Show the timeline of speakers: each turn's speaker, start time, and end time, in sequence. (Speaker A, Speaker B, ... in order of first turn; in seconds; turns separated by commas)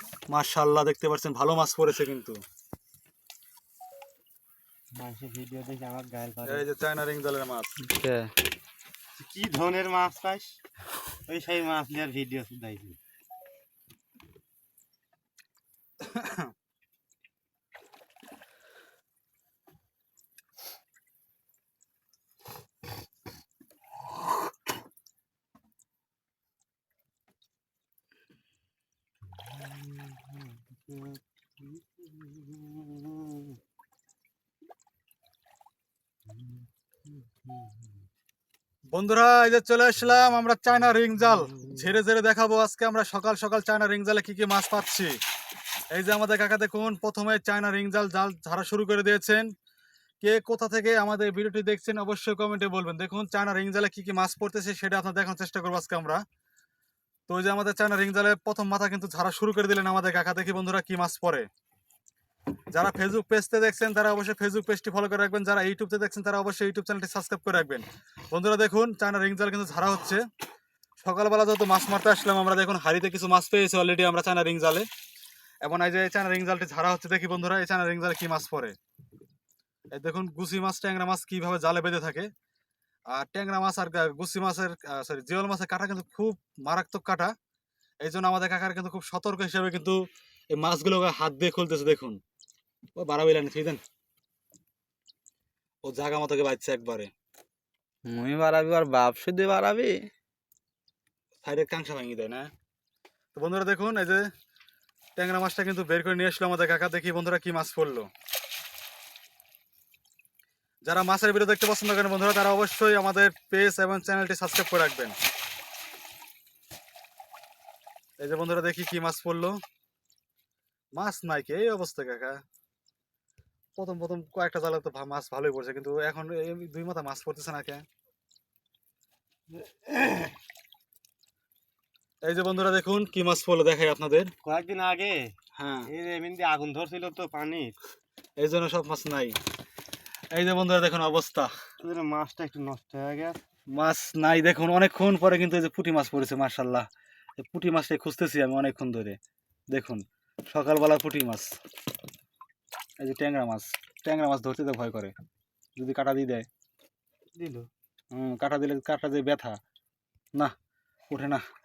Speaker A: 0.3-2.4, Speaker B: 5.0-6.7, Speaker A: 6.4-7.8, Speaker C: 7.8-8.3, Speaker B: 9.2-10.6, Speaker B: 11.2-13.0, Speaker A: 16.0-16.5, Speaker B: 29.3-33.6, Speaker B: 36.3-37.9, Speaker A: 38.9-45.1, Speaker B: 41.3-41.8, Speaker A: 45.9-49.5, Speaker A: 50.2-56.2, Speaker A: 57.3-61.5, Speaker A: 62.7-70.2, Speaker A: 71.0-74.9, Speaker A: 75.6-78.7, Speaker A: 79.9-82.3, Speaker A: 83.1-87.3, Speaker A: 88.0-90.0, Speaker A: 90.5-92.2, Speaker A: 93.0-93.8, Speaker A: 95.8-97.1, Speaker C: 98.0-100.0, Speaker A: 101.4-102.5, Speaker A: 103.3-104.2, Speaker A: 105.2-108.1, Speaker A: 110.8-115.2, Speaker A: 118.2-119.6, Speaker A: 121.0-122.4, Speaker A: 123.8-127.8, Speaker B: 129.6-130.3, Speaker A: 132.3-134.3, Speaker B: 134.4-135.2, Speaker A: 135.5-135.9, Speaker B: 135.9-137.7, Speaker A: 138.4-139.3, Speaker A: 140.3-141.5, Speaker B: 141.8-143.4, Speaker A: 143.7-146.9, Speaker A: 147.4-149.2, Speaker A: 149.7-151.5, Speaker A: 153.0-155.1, Speaker A: 155.8-156.5, Speaker B: 157.4-157.7, Speaker A: 158.1-159.6, Speaker A: 161.1-161.4